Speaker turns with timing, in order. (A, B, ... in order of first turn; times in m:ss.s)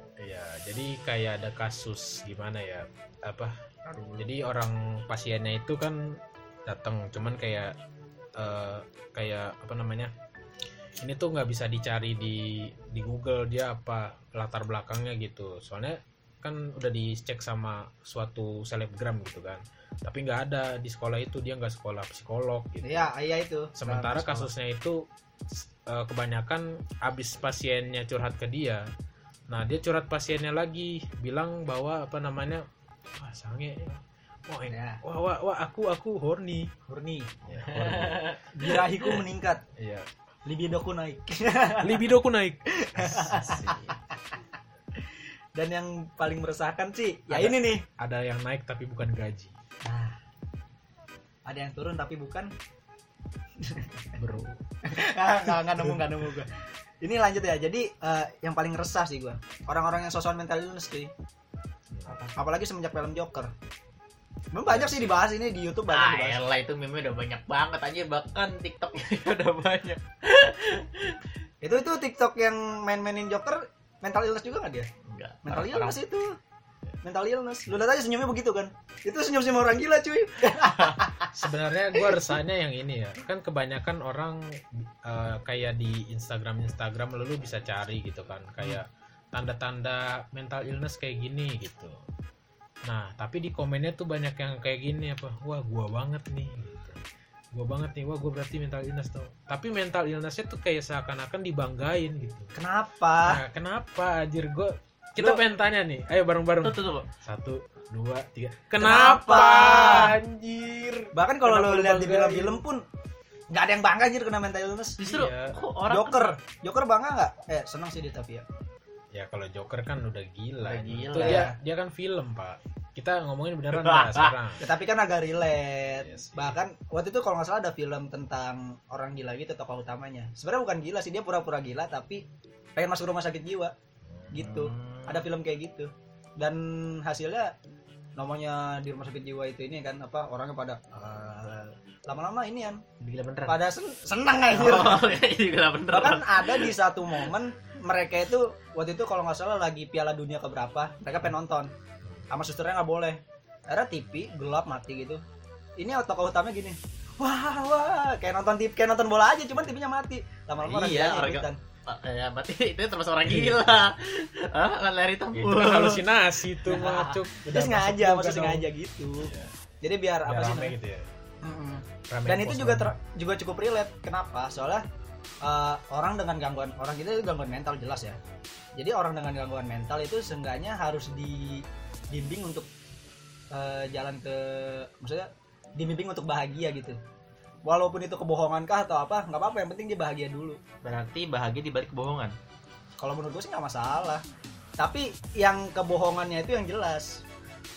0:00.2-0:03.6 A
0:03.9-0:04.3 B
0:04.2-0:07.8 A
0:08.4-0:10.1 A
0:11.0-0:23.1 A
0:22.8-0:24.5 B
0:23.8-0:28.8 A
0:29.5-0:36.7 A
0:34.7-0:35.0 B
0:36.9-0:37.3 B
0:37.4-0:38.4 A
0:37.6-0:38.4 C
0:38.5-0:39.6 B
0:39.8-0:40.1 A
0:40.5-0:42.1 B
0:41.8-0:43.4 A
0:42.7-0:43.9 B
0:43.3-0:43.9 C
0:45.6-0:47.8 B
0:47.3-0:49.5 A
0:49.8-0:50.2 B
0:51.5-0:52.5 B
0:53.6-0:54.0 B
0:54.2-0:54.6 A
0:54.8-1:01.1 B
1:01.9-1:02.2 A
1:02.1-1:03.5 B
1:04.5-1:06.4 B
1:04.7-1:05.2 A
1:05.9-1:11.3 C
1:11.6-1:14.9 B
1:15.0-1:16.0 C
1:15.4-1:16.4 B
1:17.0-1:21.3 B
1:21.3-1:32.0 A
1:32.9-1:37.0 A
1:37.5-1:42.5 A
1:42.6-1:43.4 B
1:43.3-1:52.6 A
1:46.6-1:47.1 C
1:48.8-1:50.2 B
1:51.1-1:52.8 B
1:53.5-1:55.0 B
1:55.0-1:56.4 C
1:55.0-1:55.6 A
1:55.9-1:58.5 B
1:59.1-2:04.7 A
2:00.6-2:01.5 C
2:01.2-2:01.6 B
2:03.8-2:04.4 C
2:04.6-2:12.2 B
2:06.0-2:06.6 A
2:12.8-2:13.7 B
2:14.1-2:14.4 A
2:14.3-2:17.5 B
2:14.4-2:15.2 C
2:18.2-2:22.8 B
2:23.0-2:23.6 C
2:23.5-2:25.1 B
2:24.6-2:26.7 C
2:25.9-2:31.7 B
2:32.3-2:35.2 B
2:35.8-2:41.6 B
2:40.6-2:46.0 C
2:43.3-2:43.6 A
2:45.3-2:49.5 A
2:46.7-2:49.3 B
2:49.8-2:50.7 B
2:50.3-2:51.1 A
2:51.4-2:54.8 B
2:52.1-2:53.0 A
2:55.4-2:58.2 B
2:58.8-3:02.7 B
3:03.5-3:07.0 B
3:07.7-3:10.6 B
3:10.8-3:12.4 C
3:13.0-3:14.2 B
3:14.8-3:17.2 B